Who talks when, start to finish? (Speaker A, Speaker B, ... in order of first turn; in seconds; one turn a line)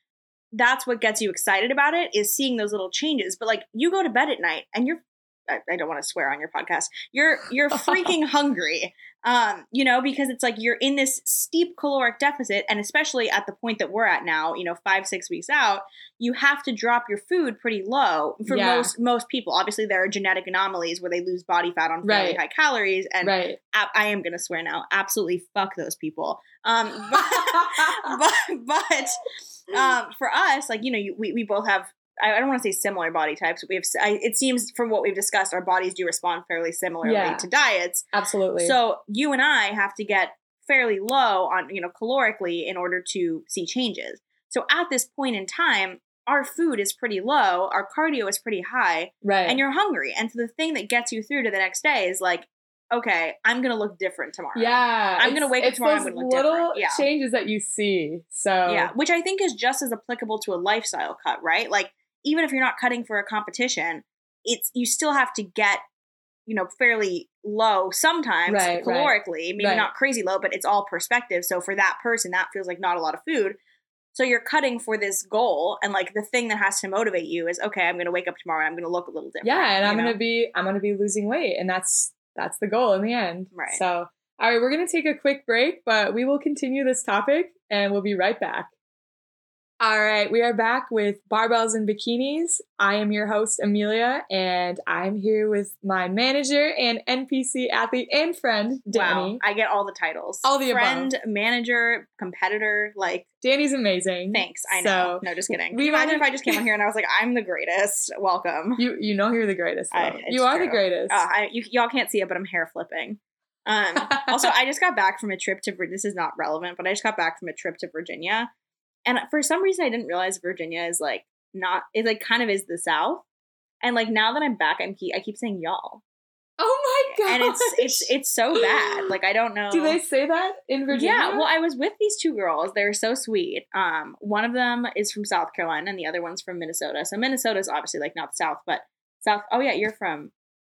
Speaker A: 0.5-38.0
Speaker B: 7.8-8.1
Speaker B: 18.5-18.9
Speaker B: 22.0-22.4
Speaker B: 23.2-23.6
Speaker B: 27.1-28.1
Speaker B: 37.0-37.5
Speaker B: 38.1-38.8
Speaker A: 38.6-57.1
Speaker B: 49.2-49.6
Speaker B: 54.5-58.9
Speaker A: 58.7-65.8
Speaker A: 66.5-73.6
Speaker B: 68.5-69.9
Speaker A: 74.1-80.2
Speaker B: 79.4-88.7
Speaker A: 83.5-83.8
Speaker B: 89.8-99.4
Speaker A: 98.9-103.3
Speaker B: 100.4-101.1
Speaker B: 103.4-106.6
Speaker A: 104.3-108.8
Speaker B: 108.8-111.2
Speaker A: 109.9-118.5
Speaker A: 119.0-123.2
Speaker A: 123.8-126.0
Speaker B: 126.6-128.1
Speaker A: 127.2-130.0
Speaker B: 129.7-131.5
Speaker A: 130.9-140.3